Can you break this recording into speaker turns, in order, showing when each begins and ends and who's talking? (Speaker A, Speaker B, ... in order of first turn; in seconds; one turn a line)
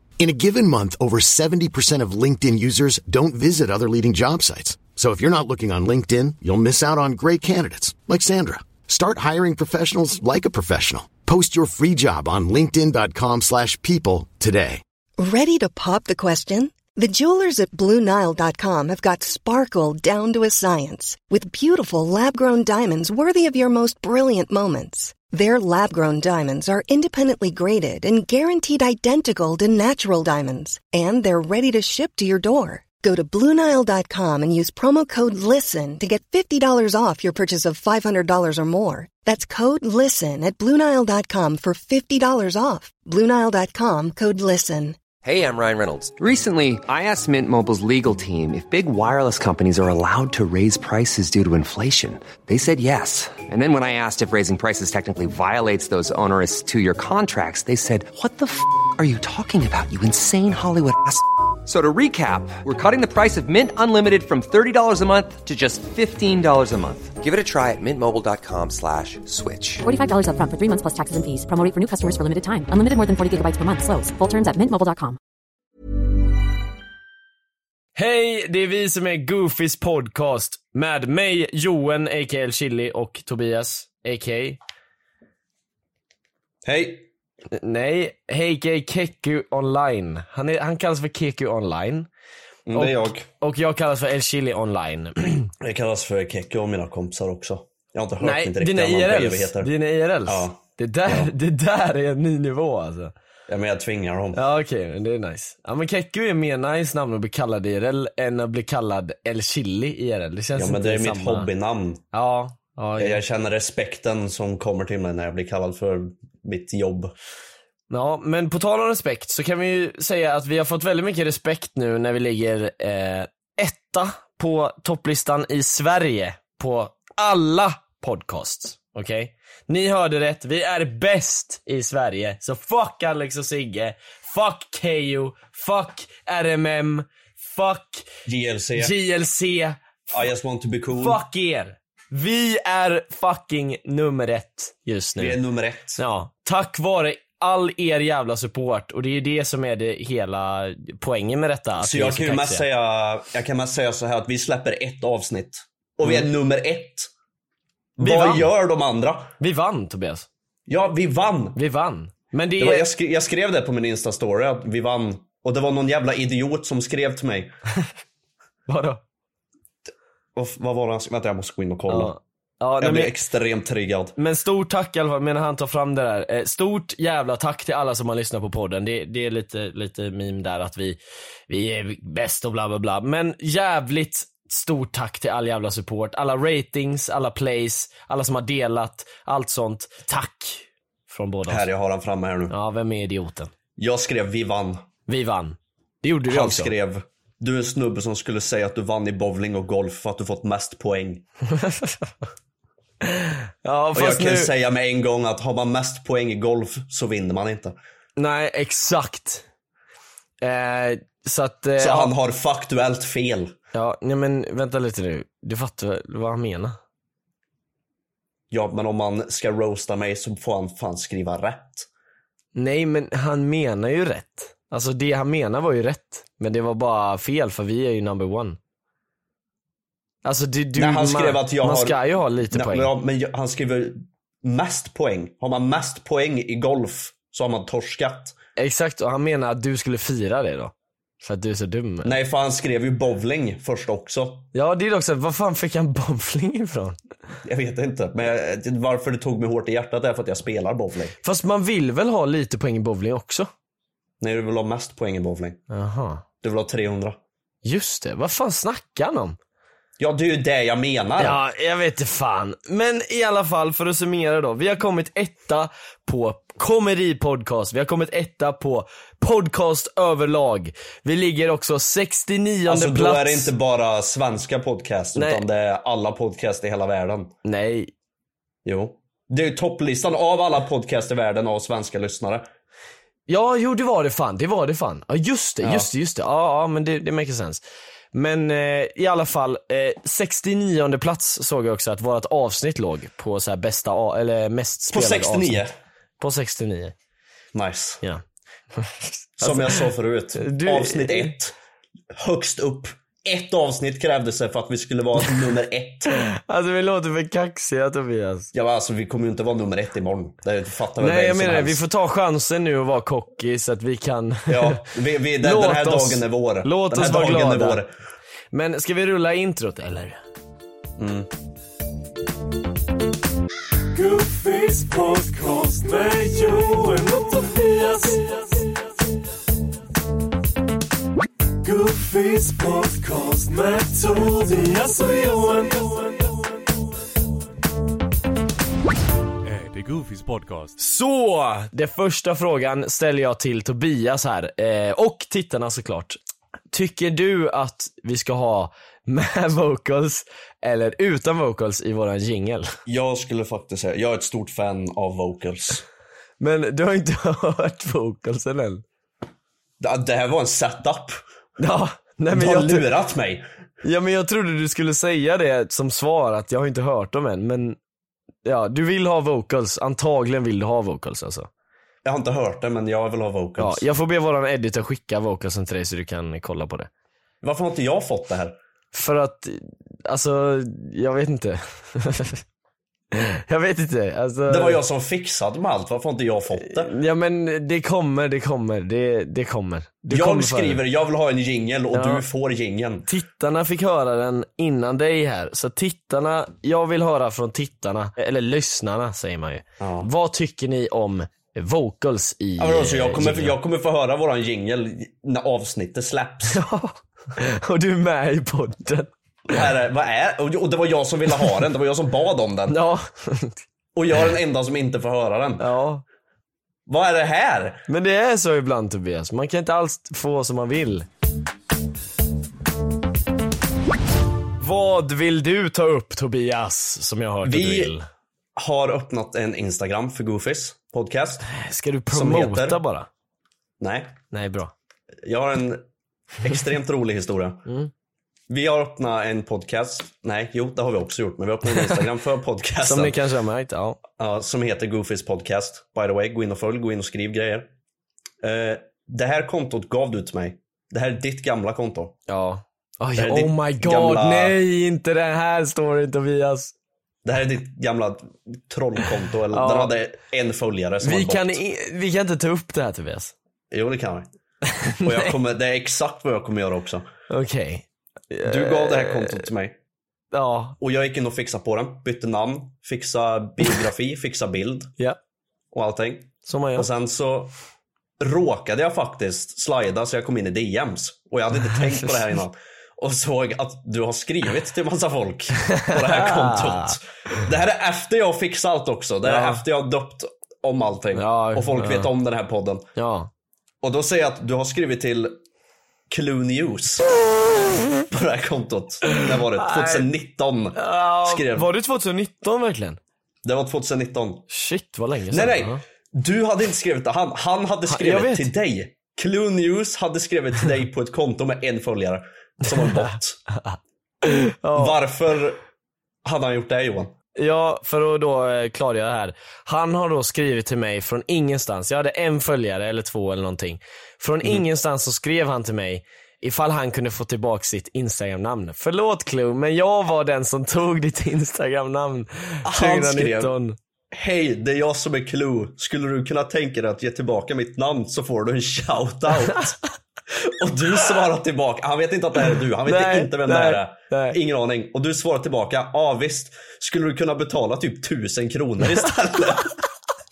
Speaker A: 0.2-14.8
Speaker B: 15.2-45.0
Speaker C: 45.2-69.8
Speaker D: 69.8-75.2
Speaker E: 78.0-84.6
Speaker F: 86.6-87.0
Speaker E: 87.5-92.1
Speaker F: 92.7-93.3
Speaker E: 92.7-95.5
Speaker F: 95.6-99.7
Speaker E: 98.2-103.1
Speaker F: 100.2-101.3
Speaker F: 103.5-104.4
Speaker E: 104.3-111.5
Speaker F: 110.5-112.0
Speaker E: 112.1-113.2
Speaker F: 113.0-117.1
Speaker E: 117.9-138.1
Speaker F: 138.2-138.9
Speaker E: 138.8-139.8
Speaker F: 140.1-141.2
Speaker E: 141.0-145.4
Speaker F: 145.2-146.0
Speaker E: 146.0-152.7
Speaker F: 151.8-157.1
Speaker F: 158.0-159.3
Speaker E: 158.0-158.5
Speaker E: 159.4-160.3
Speaker F: 160.7-161.6
Speaker E: 161.6-162.9
Speaker F: 162.6-167.5
Speaker E: 168.7-169.0
Speaker F: 170.3-172.2
Speaker E: 171.9-173.1
Speaker F: 172.8-174.1
Speaker E: 174.2-181.0
Speaker E: 181.5-191.7
Speaker F: 191.5-192.5
Speaker E: 192.5-193.5
Speaker F: 193.8-194.8
Speaker E: 195.1-196.7
Speaker F: 196.3-201.2
Speaker E: 203.0-204.5
Speaker F: 203.9-207.8
Speaker E: 208.2-209.4
Speaker E: 210.4-212.1
Speaker F: 211.8-213.5
Speaker E: 213.7-216.8
Speaker F: 218.5-221.9
Speaker E: 222.5-228.6
Speaker E: 230.2-232.9
Speaker F: 230.8-238.3
Speaker E: 238.6-242.1
Speaker F: 242.0-244.5
Speaker E: 244.5-247.0
Speaker F: 247.4-251.2
Speaker E: 251.2-253.5
Speaker F: 254.2-255.6
Speaker E: 255.7-256.2
Speaker F: 256.4-257.2
Speaker E: 257.6-259.4
Speaker F: 260.0-261.4
Speaker E: 261.2-273.5
Speaker F: 272.7-277.3
Speaker E: 275.2-275.4
Speaker E: 277.4-277.9
Speaker F: 278.6-282.4
Speaker E: 283.3-287.6
Speaker F: 285.6-285.9
Speaker E: 288.1-295.6
Speaker F: 294.9-295.7
Speaker E: 296.2-296.9
Speaker F: 297.5-298.0
Speaker E: 298.8-299.9
Speaker F: 299.4-301.5
Speaker E: 300.4-301.4
Speaker F: 302.1-306.1
Speaker E: 306.1-308.5
Speaker F: 308.5-311.8
Speaker E: 311.0-314.8
Speaker F: 314.5-317.9
Speaker E: 315.4-317.8
Speaker E: 318.5-320.2
Speaker F: 321.0-321.3
Speaker G: 323.9-328.4
Speaker G: 331.6-336.2
Speaker G: 339.4-340.8
Speaker E: 340.8-346.2
Speaker E: 346.7-352.7
Speaker F: 352.9-355.8
Speaker E: 356.4-358.8
Speaker F: 359.8-361.2
Speaker E: 361.6-362.9
Speaker F: 362.3-363.4
Speaker E: 363.8-367.8
Speaker E: 368.4-371.5
Speaker F: 372.0-373.8
Speaker E: 373.6-376.9
Speaker F: 377.4-378.6
Speaker E: 378.9-382.4
Speaker E: 383.1-384.8
Speaker F: 384.5-386.9
Speaker E: 386.6-390.8
Speaker F: 390.1-393.1
Speaker E: 391.9-392.3
Speaker E: 393.1-403.6
Speaker F: 399.8-400.1
Speaker F: 402.6-406.6
Speaker E: 406.5-409.6
Speaker F: 409.5-412.8
Speaker E: 412.7-413.6
Speaker F: 413.9-415.6
Speaker E: 415.6-416.0
Speaker F: 416.9-417.8
Speaker E: 417.9-421.1
Speaker E: 424.6-428.1
Speaker F: 427.4-427.9
Speaker F: 428.6-431.4
Speaker E: 431.5-433.1
Speaker F: 432.1-432.8
Speaker F: 433.8-434.2
Speaker E: 434.3-434.7
Speaker F: 435.2-435.8
Speaker F: 436.4-437.6
Speaker F: 438.5-443.2
Speaker E: 442.8-444.0
Speaker F: 444.2-447.7
Speaker F: 448.4-452.2
Speaker E: 452.3-456.7
Speaker F: 453.2-454.6
Speaker F: 457.2-461.6
Speaker E: 459.5-459.9
Speaker E: 461.0-463.3
Speaker F: 463.7-464.3
Speaker E: 464.7-465.3
Speaker F: 465.0-467.1
Speaker E: 467.3-469.5
Speaker F: 468.5-469.8
Speaker E: 470.3-470.8
Speaker F: 470.8-474.9
Speaker F: 475.7-477.5
Speaker E: 476.5-476.9
Speaker F: 478.2-492.9
Speaker E: 481.8-482.1
Speaker E: 485.7-486.9
Speaker E: 489.2-489.6
Speaker E: 491.1-492.1
Speaker E: 493.0-493.3
Speaker F: 493.8-495.4
Speaker F: 496.1-497.1
Speaker F: 498.1-501.7
Speaker E: 499.1-500.1
Speaker E: 500.8-503.0
Speaker F: 503.4-504.4
Speaker E: 504.5-505.8
Speaker F: 505.3-513.4
Speaker E: 507.9-508.5
Speaker E: 512.8-515.0
Speaker F: 514.8-515.6
Speaker F: 516.2-517.1
Speaker E: 517.4-533.8
Speaker F: 532.6-533.5
Speaker F: 534.1-539.8
Speaker F: 540.4-549.8
Speaker E: 542.9-544.4